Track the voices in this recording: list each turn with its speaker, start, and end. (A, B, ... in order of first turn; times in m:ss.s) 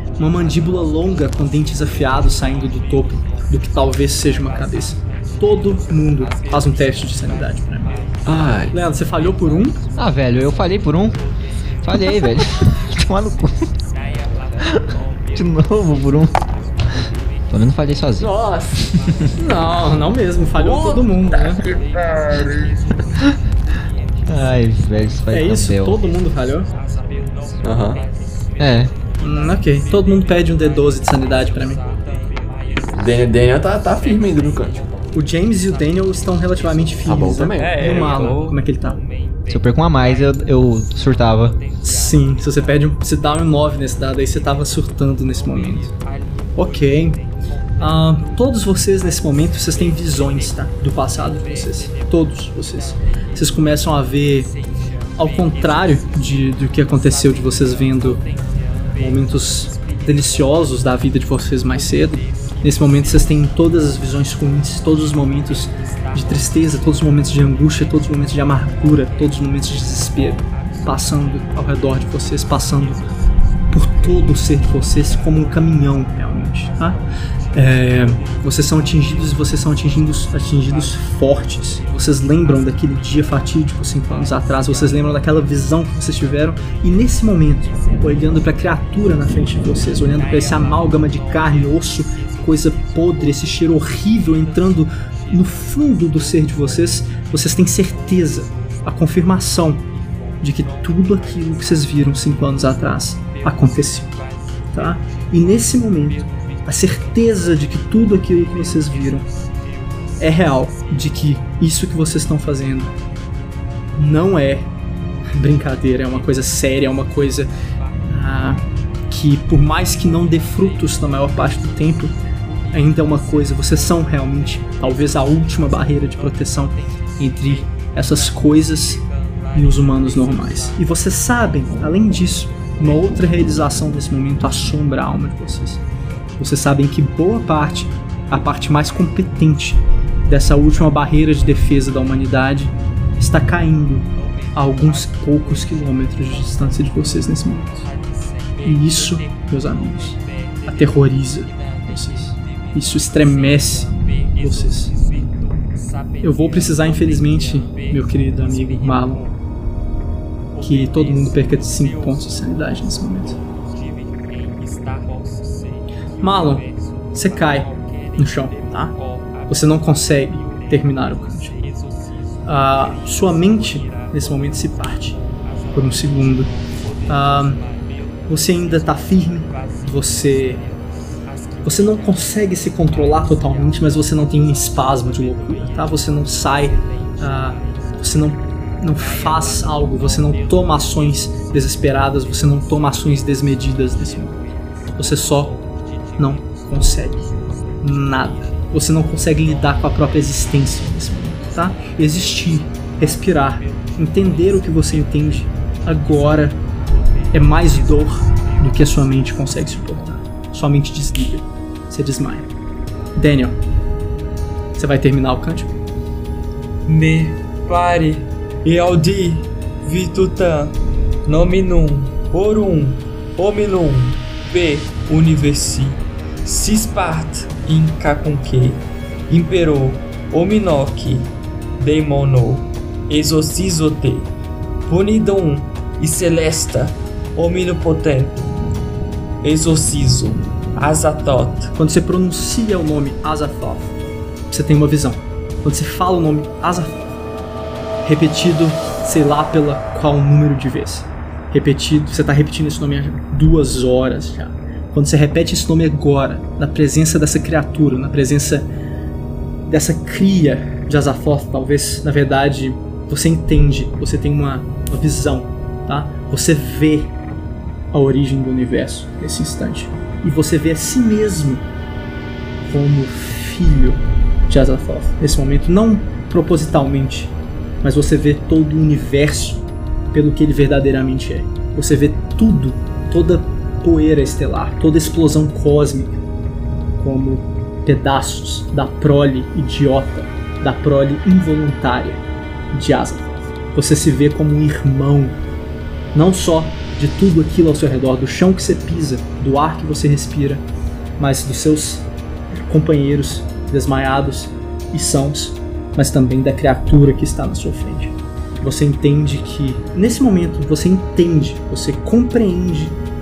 0:00.2-0:07.9 A
0:08.2-0:08.7 B
0:08.7-0:09.8 A
0:10.0-0:11.2 C
0:11.8-0:13.7 C
0:14.6-0:16.3 C
0:17.5-0:19.3 C
0:18.2-0:18.8 B
0:19.4-0:21.6 A
0:20.6-0:22.8 D
0:24.3-0:26.0 C
0:25.3-0:26.7 A
0:27.6-0:28.0 B
0:28.6-0:28.9 C
0:29.2-0:31.8 A
0:32.9-0:34.8 B
0:35.1-0:39.0 A
0:37.0-0:38.3 B
0:37.6-0:38.6 D
0:39.5-0:41.6 C
0:41.8-0:45.9 A
0:46.6-0:47.2 A
0:47.8-0:54.5 A
0:55.2-0:58.2 A
0:58.9-1:13.0 A
1:13.7-1:17.0 A
1:17.5-1:39.9 A
1:40.4-1:44.1 A
1:44.7-1:49.3 A
1:50.2-1:52.9 A
1:54.0-1:54.7 A
1:55.4-1:57.5 A
1:58.1-2:02.1 A
2:02.7-2:15.8 A
2:16.4-2:27.9 A
2:28.6-2:35.0 A
2:36.2-2:39.3 A
2:40.6-2:43.4 A
2:46.2-2:48.9 A
2:49.5-2:51.6 A
2:52.4-2:55.2 A
2:55.7-2:56.5 A
2:57.1-2:57.6 A
2:58.3-3:00.6 A
3:01.6-3:14.4 A
3:15.0-3:15.6 A
3:16.2-3:17.3 A
3:17.8-3:26.6 A
3:27.3-3:32.5 A
3:33.2-3:33.6 A
3:34.8-3:35.7 A
3:36.8-3:54.3 D
3:54.8-3:58.6 D
3:59.4-4:01.7 D
4:01.8-4:03.9 A
4:04.5-4:07.0 A
4:08.0-4:18.7 A
4:19.6-4:27.1 A
4:27.9-4:31.6 A
4:32.6-4:46.2 A
4:47.0-4:55.4 A
4:56.1-5:00.6 A
5:01.2-5:13.0 A